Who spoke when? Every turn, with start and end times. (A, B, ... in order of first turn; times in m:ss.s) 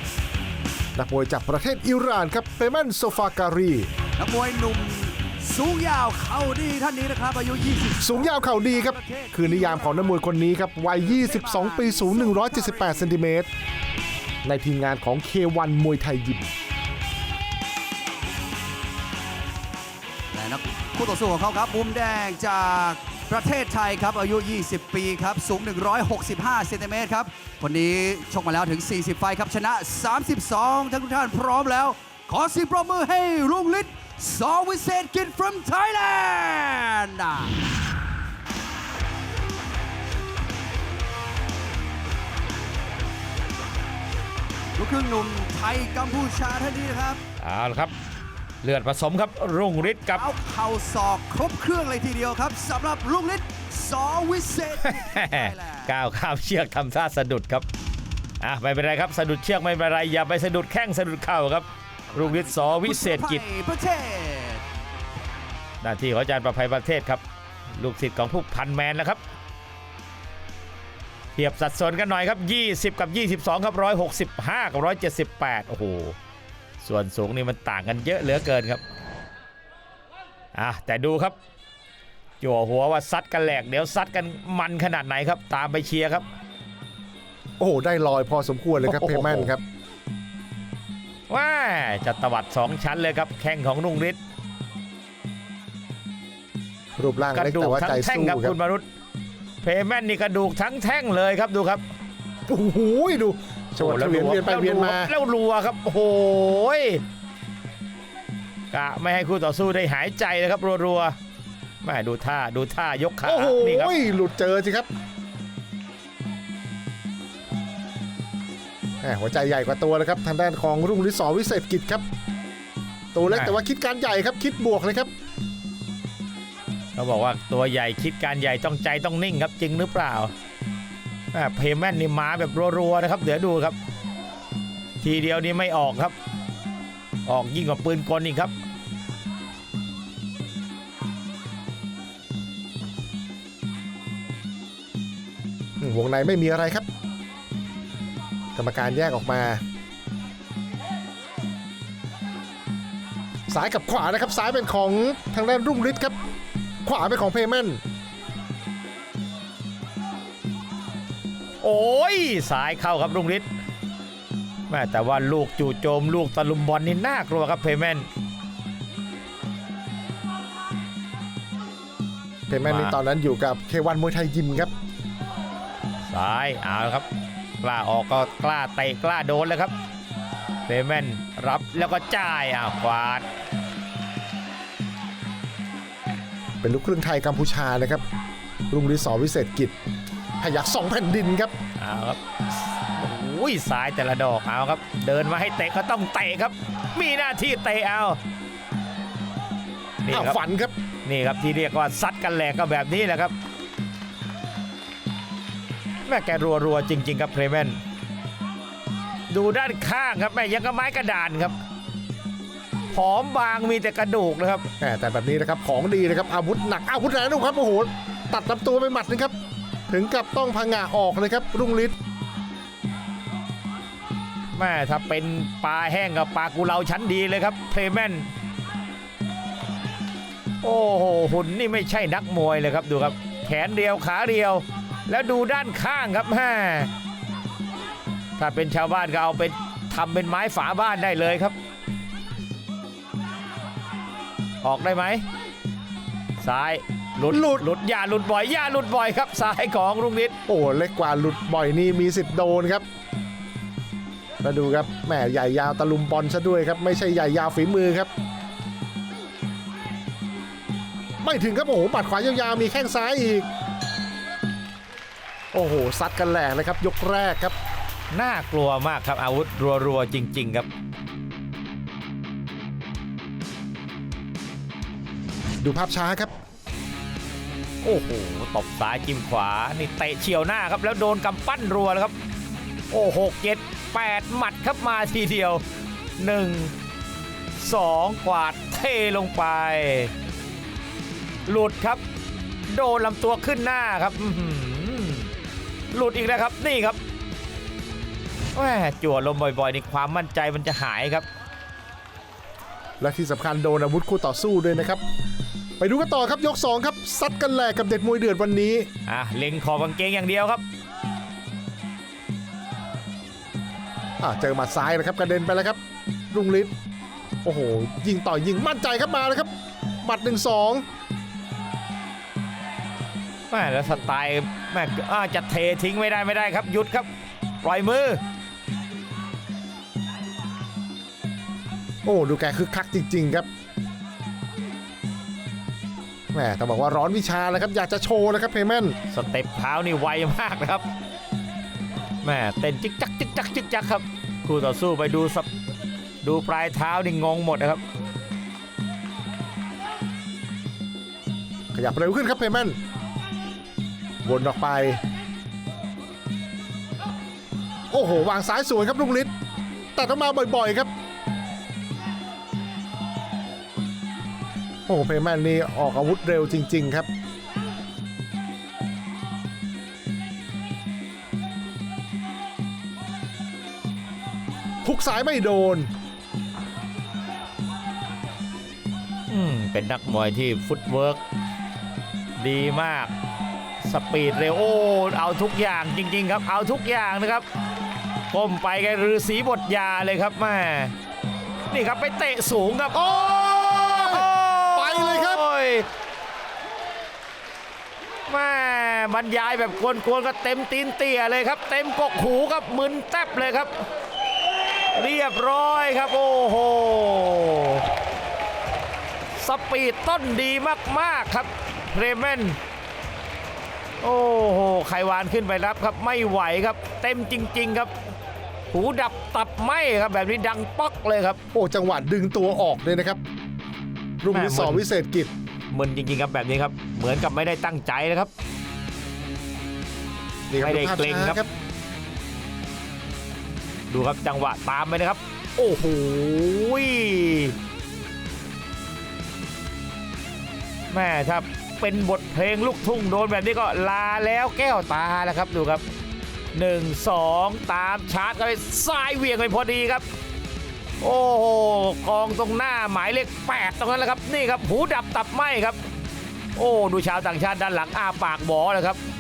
0:01.0-0:03.9 A
0:04.2-0:10.3 B
0:08.0-0:13.5 A
0:10.9-0:13.2 B
0:14.4-0:16.5 A
0:20.3-0:37.6 B
0:44.8-0:47.2 B
0:47.4-0:47.9 C
0:48.6-0:50.2 C
0:50.0-0:55.9 B
0:54.8-0:57.7 C
0:58.4-1:03.4 C
1:02.1-1:04.6 B
1:05.8-1:07.2 C
1:07.8-1:09.2 C
1:11.4-1:16.2 C
1:16.8-1:18.8 C
1:20.6-1:21.4 C
1:22.4-1:26.3 C
1:27.6-1:29.6 A
1:28.8-1:29.5 C
1:31.3-1:34.2 C
1:37.0-1:38.6 A
1:37.3-1:38.8 C
1:39.6-1:41.8 C
1:42.5-1:45.1 A
1:43.8-1:47.0 C
1:48.7-1:51.2 C
1:51.8-1:53.9 C
1:53.2-1:54.9 A
1:59.0-2:02.0 A
2:03.1-2:05.1 A
2:03.3-2:03.6 C
2:07.0-2:10.3 C
2:11.3-2:13.8 C
2:15.0-2:16.1 C
2:17.3-2:18.5 C
2:25.8-2:26.8 A
2:28.6-2:29.6 A
2:33.5-2:36.2 A
2:36.8-2:37.8 A
2:41.6-2:43.5 C
2:44.7-2:48.1 C
2:52.5-2:54.7 A
2:52.6-2:53.0 C
2:56.1-2:57.1 C
2:57.6-2:59.7 C
3:00.7-3:03.3 C
3:06.6-3:08.0 A
3:08.7-3:09.8 A
3:10.4-3:11.5 A
3:11.8-3:12.2 C
3:12.8-3:18.2 C
3:20.0-3:20.4 C
3:20.1-3:20.7 A
3:21.0-3:23.3 C
3:26.1-3:27.8 C
3:29.3-3:31.6 C
3:32.9-3:34.6 C
3:34.8-3:39.3 A
3:39.9-3:42.0 A
3:44.6-3:48.3 C
3:50.6-3:56.9 C
3:58.4-4:01.6 C
4:04.6-4:05.2 C
4:06.4-4:10.4 C
4:07.3-4:07.6 A
4:10.5-4:12.8 A
4:14.4-4:18.1 A
4:21.2-4:23.5 A
4:25.5-4:27.5 A
4:28.1-4:30.7 C
4:35.6-4:36.3 A
4:37.8-4:42.1 C
4:42.9-4:45.6 C
4:46.2-4:46.7 C
4:47.6-4:50.1 C
4:51.5-4:52.0 C
4:52.7-4:55.3 C
4:55.9-4:57.0 C
4:58.6-5:01.3 C
5:03.0-5:05.0 A
5:05.8-5:08.9 A
5:09.1-5:10.6 C
5:14.2-5:15.8 A
5:16.3-5:16.7 A
5:17.4-5:19.5 A
5:20.0-5:20.8 A
5:23.5-5:27.1 C
5:27.6-5:28.2 C
5:32.0-5:33.5 A
5:36.3-5:39.0 A
5:39.1-5:40.8 C
5:42.2-5:45.5 C
5:46.2-5:47.8 C
5:51.7-5:52.8 A
5:54.2-5:55.0 A
5:57.9-5:59.3 A
6:00.0-6:00.9 A
6:04.9-6:07.1 A
6:14.8-6:15.9 A
6:19.3-6:21.2 C
6:22.4-6:23.1 C
6:23.8-6:27.5 C
6:28.3-6:30.9 C
6:31.7-6:35.9 C
6:33.0-6:35.4 A
6:38.3-6:43.7 C
6:44.9-6:47.8 C
6:49.4-6:52.6 C
6:54.0-6:57.9 C
6:58.7-7:01.4 C
7:01.5-7:03.2 A
7:04.2-7:05.3 A
7:04.3-7:04.8 C
7:05.7-7:08.3 C
7:10.5-7:11.5 A
7:10.6-7:11.4 C
7:13.9-7:17.6 C
7:20.9-7:25.8 C
7:26.6-7:30.1 C
7:31.0-7:35.8 C
7:36.6-7:39.0 C